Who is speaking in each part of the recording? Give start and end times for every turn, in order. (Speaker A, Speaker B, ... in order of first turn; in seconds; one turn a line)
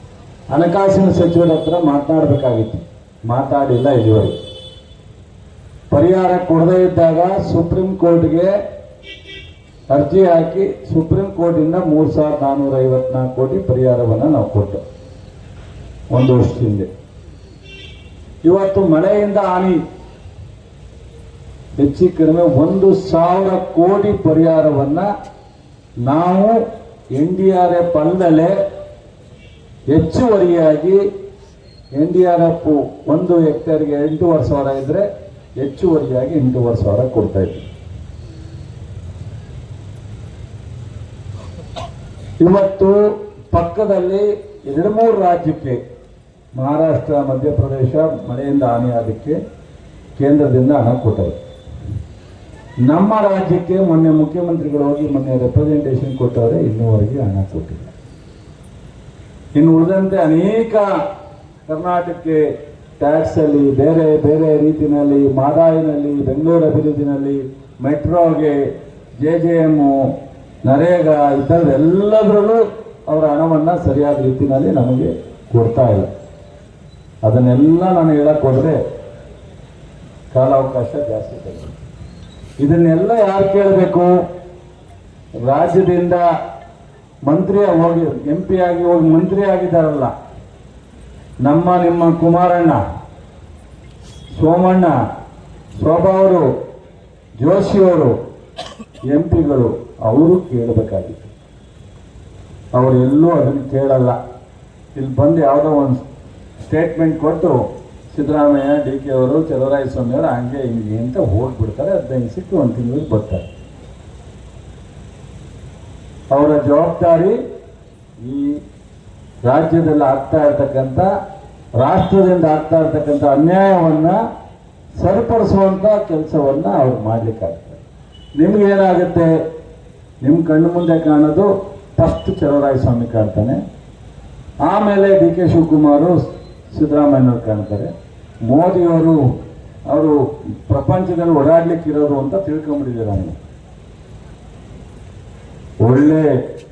Speaker A: 0.5-4.4
Speaker A: 5.9-8.5
Speaker A: 9.9-14.8
Speaker A: 16.1-16.9
Speaker A: 18.4-19.8
Speaker A: 21.8-25.1
Speaker A: 26.0-26.6
Speaker A: 27.1-28.6
Speaker A: 29.9-31.0
Speaker A: 31.9-35.1
Speaker A: 35.6-37.6
Speaker A: 42.4-45.8
Speaker A: 46.5-49.4
Speaker A: 50.1-51.4
Speaker A: 52.8-57.9
Speaker A: 59.5-60.9
Speaker A: 61.7-70.1
Speaker A: 70.7-76.1
Speaker A: 77.2-78.8
Speaker A: 80.3-81.8
Speaker A: 82.6-84.1
Speaker A: 85.5-86.2
Speaker A: 87.2-90.1
Speaker A: 91.4-92.8
Speaker A: 94.3-94.9
Speaker A: 95.8-96.5
Speaker A: 97.4-98.1
Speaker A: 99.1-101.3
Speaker A: 102.7-104.2
Speaker A: 104.9-106.0
Speaker A: 106.6-107.6
Speaker A: 108.1-113.5
Speaker A: 116.3-117.4
Speaker A: 118.2-118.6
Speaker A: 119.5-121.1
Speaker A: 121.8-124.2
Speaker A: 125.0-127.8
Speaker A: 128.3-129.3
Speaker A: 130.2-133.6
Speaker A: 134.6-137.9
Speaker A: 138.4-139.2
Speaker A: 139.9-140.1
Speaker A: 140.7-143.4
Speaker A: 145.8-146.4